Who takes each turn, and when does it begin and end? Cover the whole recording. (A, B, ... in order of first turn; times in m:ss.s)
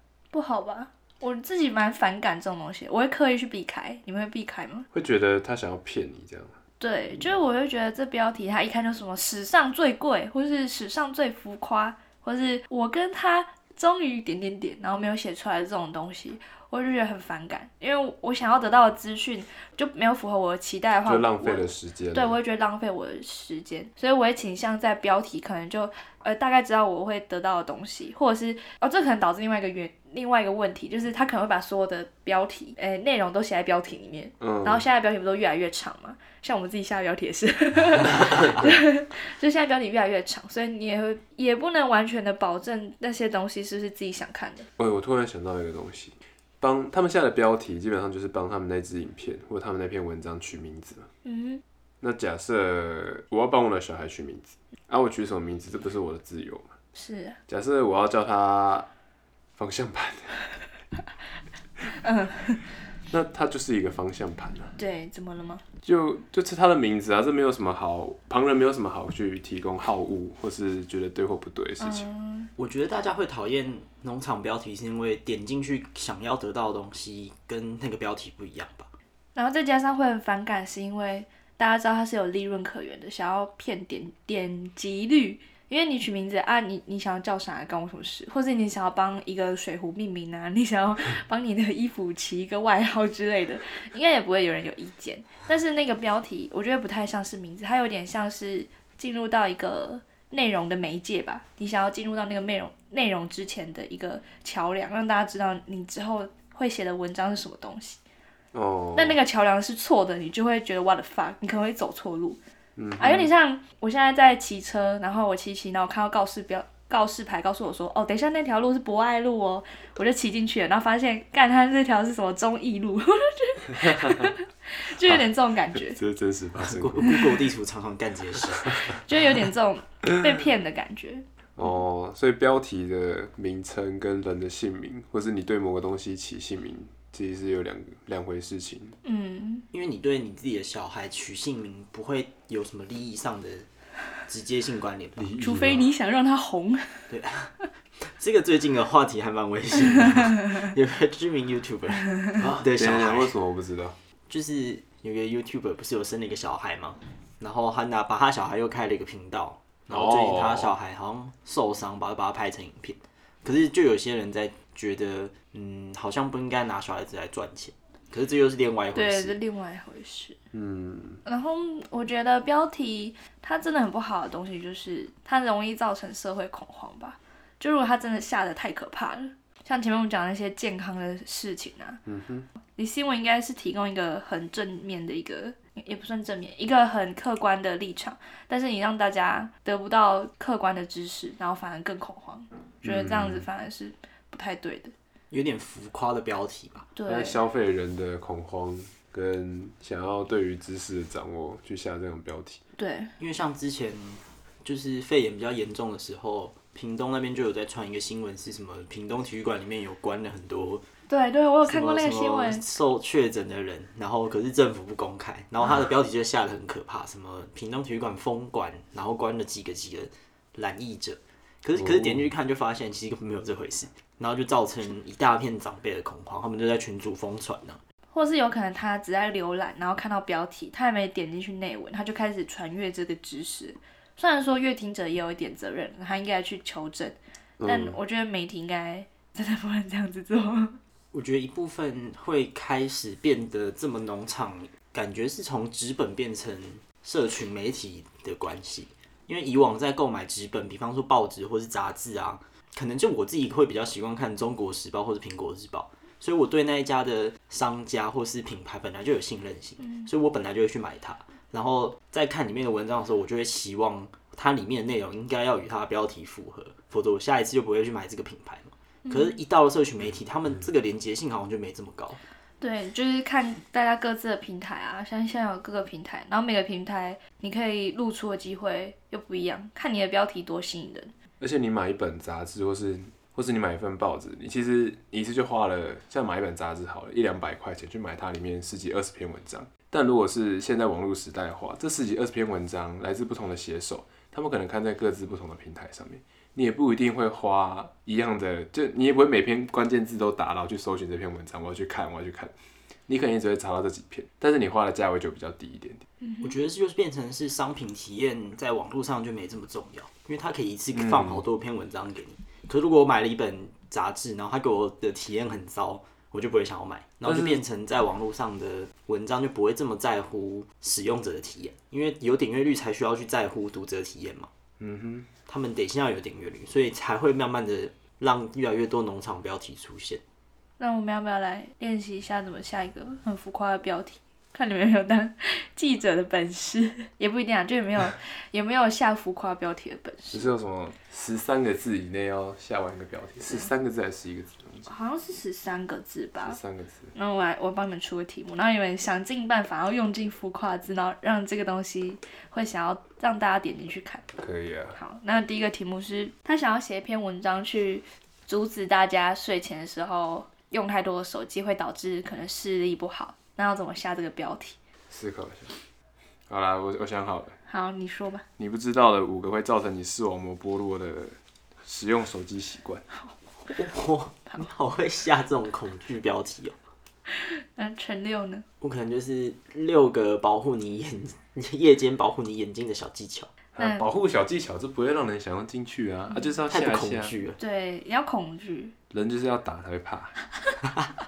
0:00.3-0:04.9 A
0:04.9-0:06.6 B
0:06.8-0:44.7 A
0:21.1-0:22.4 B
0:34.4-0:34.9 B
0:38.3-0:38.8 B
0:44.8-0:51.1 B
0:51.2-0:51.6 A
0:52.0-0:56.7 B
0:57.0-0:57.4 A
0:57.5-0:58.9 B
0:59.6-1:00.4 B
1:02.0-1:02.6 A
1:03.1-1:04.8 B
1:04.8-1:05.6 A
1:05.8-1:12.1 B
1:11.8-1:12.5 A
1:12.6-1:18.9 C
1:19.4-1:48.0 A
1:48.5-1:49.2 B
1:49.0-1:52.4 A
1:52.8-1:53.3 B
1:53.0-2:06.0 A
2:03.7-2:04.3 B
2:05.0-2:07.4 B
2:06.6-2:08.8 C
2:08.6-2:08.9 B
2:08.9-2:11.2 A
2:11.6-2:19.0 B
2:19.0-2:19.7 A
2:19.7-2:23.7 C
2:24.3-2:25.3 C
2:25.2-2:25.9 B
2:25.4-2:27.1 A
2:27.1-2:33.4 C
2:32.4-2:34.0 B
2:34.3-2:49.4 C
2:39.9-2:40.7 B
2:49.0-2:50.4 A
2:50.5-2:51.2 B
2:51.2-3:02.0 A
3:02.1-3:02.5 B
3:02.8-3:14.9 A
3:12.8-3:13.4 B
3:15.3-3:16.9 C
3:17.0-3:17.4 A
3:17.1-3:22.6 B
3:22.8-3:23.1 A
3:23.2-3:30.8 C
3:31.1-3:32.6 A
3:31.7-3:47.8 C
3:41.8-3:42.3 B
3:48.1-4:00.8 A
3:57.6-3:58.0 B
4:01.1-4:32.2 C
4:19.8-4:20.1 A
4:29.1-4:29.4 A
4:32.6-4:41.1 A
4:41.4-5:02.5 B
5:03.1-5:06.0 B
5:06.2-5:06.6 A
5:06.4-5:24.5 C
5:10.9-5:11.4 B
5:17.3-5:17.6 B
5:24.8-5:25.3 B
5:25.5-5:30.2 C
5:30.8-5:40.5 A
5:40.3-5:44.9 B
5:44.9-5:46.6 A
5:46.4-5:47.1 B
5:47.1-5:54.3 A
5:54.4-5:55.0 B
5:55.0-6:04.8 A
6:05.1-6:05.7 B
6:06.5-6:07.6 B
6:07.7-6:08.4 A
6:08.6-6:13.0 B
6:13.7-6:16.8 C
6:17.3-6:18.6 A
6:18.8-6:23.5 C
6:23.8-6:27.4 B
6:23.8-6:24.0 A
6:26.7-6:27.6 C
6:27.6-6:28.9 A
6:29.1-6:30.4 B